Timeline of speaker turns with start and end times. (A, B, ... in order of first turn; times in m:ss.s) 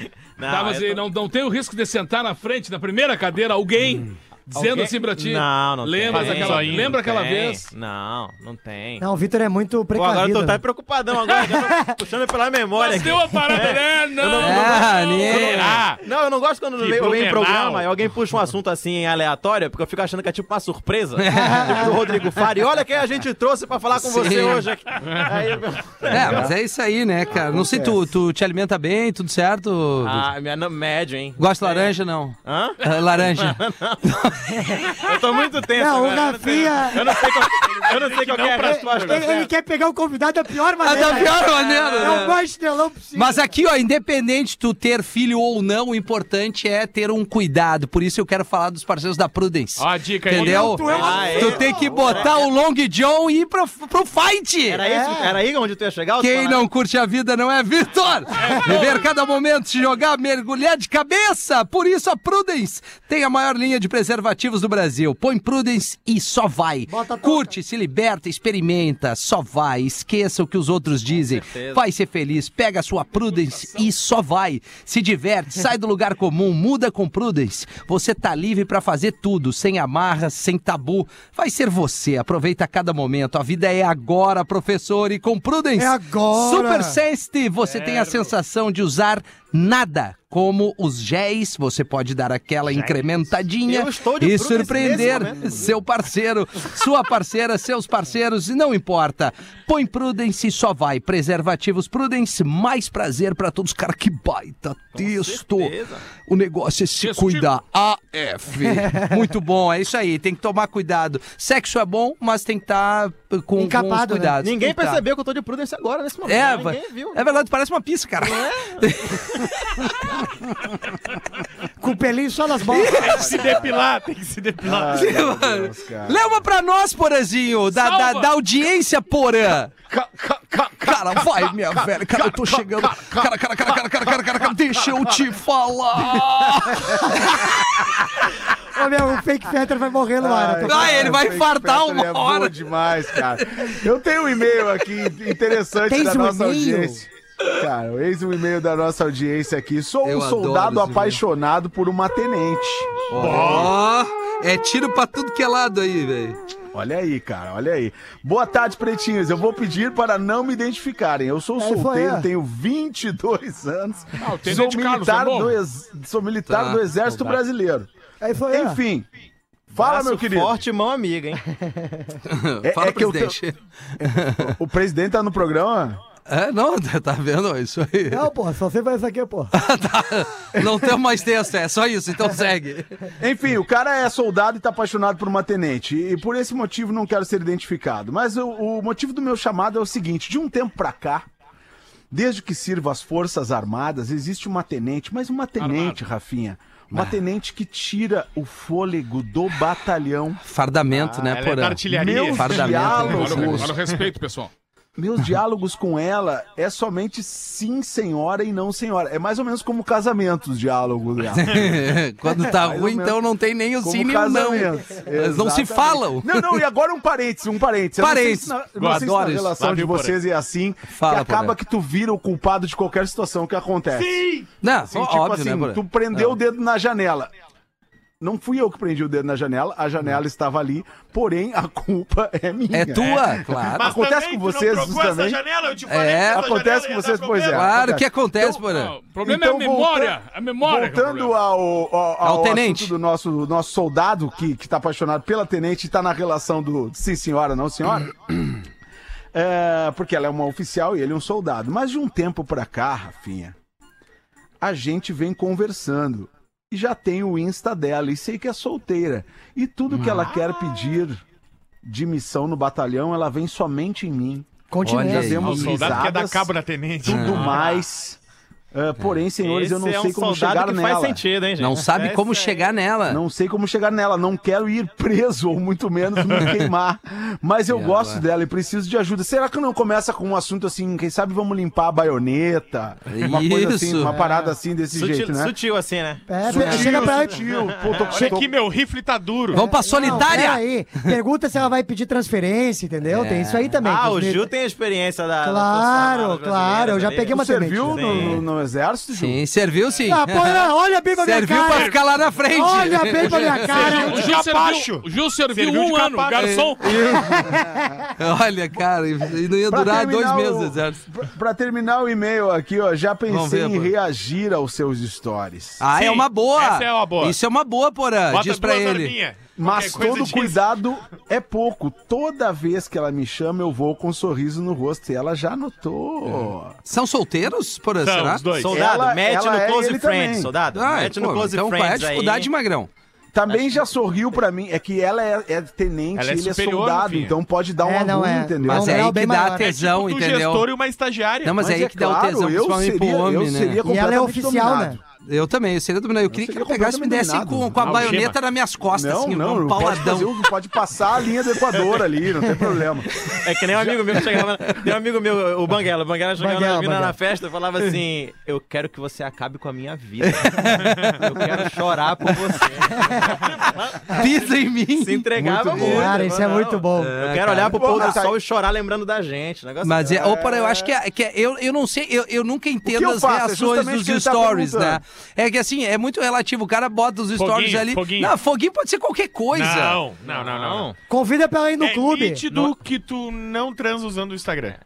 0:00.4-0:01.0 A
0:00.5-0:07.7 B
0:04.5-0:09.0 A
0:06.1-0:07.0 C
0:09.0-0:10.6 D
0:10.0-0:26.5 A
0:11.7-0:11.9 D
0:12.8-0:15.8 B
0:14.4-0:15.7 E
0:15.2-0:16.0 C
0:16.8-0:17.9 C
0:21.2-0:22.1 E
0:21.3-0:22.0 D
0:24.0-0:24.7 E
0:26.1-0:30.3 E
0:26.1-0:26.5 F
0:27.4-0:28.0 F
0:30.0-0:34.0 A
0:31.4-0:35.1 E
0:34.6-0:39.5 A
0:35.8-0:37.1 D
0:37.6-0:39.4 C
0:38.6-0:43.5 D
0:40.8-0:42.4 E
0:41.0-0:42.1 A
0:43.1-0:54.8 E
0:49.8-0:51.4 C
0:50.4-0:51.9 D
0:50.8-0:52.4 A
0:51.7-0:52.3 F
0:54.7-0:56.7 A
0:54.8-0:55.4 D
0:56.2-1:45.7 E
0:58.4-0:59.0 B
1:06.9-1:07.5 D
1:11.2-1:11.8 A
1:13.4-1:13.9 B
1:25.8-1:27.0 D
1:32.7-1:35.7 A
1:44.9-1:46.1 A
1:46.3-1:55.0 E
1:47.0-1:47.5 B
1:53.6-1:54.4 D
1:54.4-1:57.2 A
1:56.2-2:00.2 E
1:58.2-1:59.5 A
2:01.8-2:03.1 D
2:02.7-2:03.4 E
2:03.0-2:05.1 C
2:03.0-2:03.6 F
2:04.6-2:06.3 F
2:04.9-2:09.8 E
2:07.7-2:08.3 B
2:09.9-2:13.3 F
2:10.8-2:17.5 E
2:14.1-2:15.2 F
2:18.7-2:21.2 D
2:20.2-2:33.7 F
2:20.6-2:22.5 E
2:23.1-2:23.4 E
2:25.9-2:27.0 D
2:30.0-2:31.2 E
2:33.1-2:36.4 E
2:33.3-2:33.7 C
2:36.7-2:47.9 F
2:41.6-2:42.3 D
2:44.2-2:45.6 B
2:46.5-2:47.4 E
2:48.2-2:48.8 D
2:48.5-2:49.1 F
2:49.7-2:50.6 F
2:49.8-2:51.4 A
2:51.6-2:52.0 D
2:52.3-2:54.6 E
2:52.6-2:53.4 F
2:54.0-2:56.0 F
2:56.3-2:58.3 E
2:58.1-2:59.6 D
2:59.5-3:03.1 E
3:00.6-3:00.9 F
3:03.2-3:11.3 F
3:12.1-3:20.4 F
3:15.6-3:16.0 B
3:20.4-3:23.7 E
3:20.9-3:23.9 C
3:21.9-3:23.8 F
3:23.0-3:24.5 B
3:25.0-3:33.2 F
3:31.3-3:36.6 E
3:31.5-3:31.8 C
3:33.8-3:44.3 F
3:38.0-3:39.5 E
3:38.8-3:40.2 C
3:40.9-3:41.6 E
3:43.9-3:44.5 C
3:44.6-3:46.4 E
3:44.8-3:47.3 F
3:48.2-3:55.4 F
3:52.7-3:54.0 E
3:53.0-3:57.7 C
3:55.9-3:56.5 E
3:56.3-3:58.6 F
3:57.5-3:59.0 E
3:58.7-4:01.4 B
3:59.2-4:08.6 F
4:02.2-4:02.9 E
4:09.3-4:13.6 F
4:14.6-4:21.2 F
4:19.9-4:20.3 E
4:21.8-4:24.5 F
4:24.7-4:25.5 D
4:24.8-4:26.1 E
4:25.0-4:26.5 F
4:25.4-4:27.6 C
4:27.0-4:28.2 F
4:27.1-4:27.4 E
4:27.2-4:27.8 A
4:28.7-4:31.2 F
4:29.4-4:32.6 A
4:31.6-4:33.2 E
4:33.1-4:45.5 F
4:36.4-4:36.7 E
4:37.7-4:38.2 E
4:43.1-4:44.2 E
4:44.0-4:44.5 D
4:44.9-4:48.2 A
4:46.3-4:47.4 D
4:46.4-4:48.5 F
4:46.5-4:47.1 E
4:48.1-4:49.6 C
4:49.5-4:51.1 E
4:49.5-4:54.5 D
4:53.0-4:53.7 E
4:53.8-4:58.4 A
4:55.4-4:58.1 D
4:57.3-4:59.4 F
4:59.2-5:04.0 E
5:00.1-5:02.0 D
5:02.5-5:04.3 D
5:03.4-5:06.7 C
5:03.9-5:07.1 B
5:06.4-5:11.0 E
5:07.0-5:08.1 D
5:09.7-5:15.9 F
5:13.3-5:13.9 E
5:15.8-5:19.2 E
5:15.9-5:17.4 C
5:18.3-5:20.6 C
5:19.6-5:26.8 F
5:26.9-5:28.5 E
5:28.0-5:28.7 C
5:28.6-5:32.5 A
5:28.7-5:30.5 F
5:30.7-5:32.9 E
5:33.3-5:39.1 F
5:33.5-5:33.8 A
5:36.2-5:37.4 C
5:37.8-5:39.7 D
5:38.6-5:40.7 E
5:39.6-5:41.7 C
5:41.4-5:43.8 E
5:41.6-5:45.0 F
5:43.9-5:45.0 D
5:45.2-5:50.4 E
5:46.3-5:48.2 F
5:47.8-5:48.4 C
5:48.9-5:53.1 F
5:53.2-5:54.4 E
5:53.3-6:10.3 A
5:56.4-5:57.2 D
6:00.2-6:01.7 E
6:02.3-6:02.6 E
6:04.1-6:06.1 E
6:05.4-6:06.2 F
6:05.8-6:07.2 D
6:07.0-6:08.2 E
6:07.6-6:08.3 F
6:09.8-6:20.0 E
6:10.1-6:10.9 F
6:12.8-6:15.0 F
6:17.4-6:18.4 C
6:19.5-6:20.9 C
6:20.3-6:21.0 A
6:21.1-6:22.4 D
6:21.8-6:24.8 C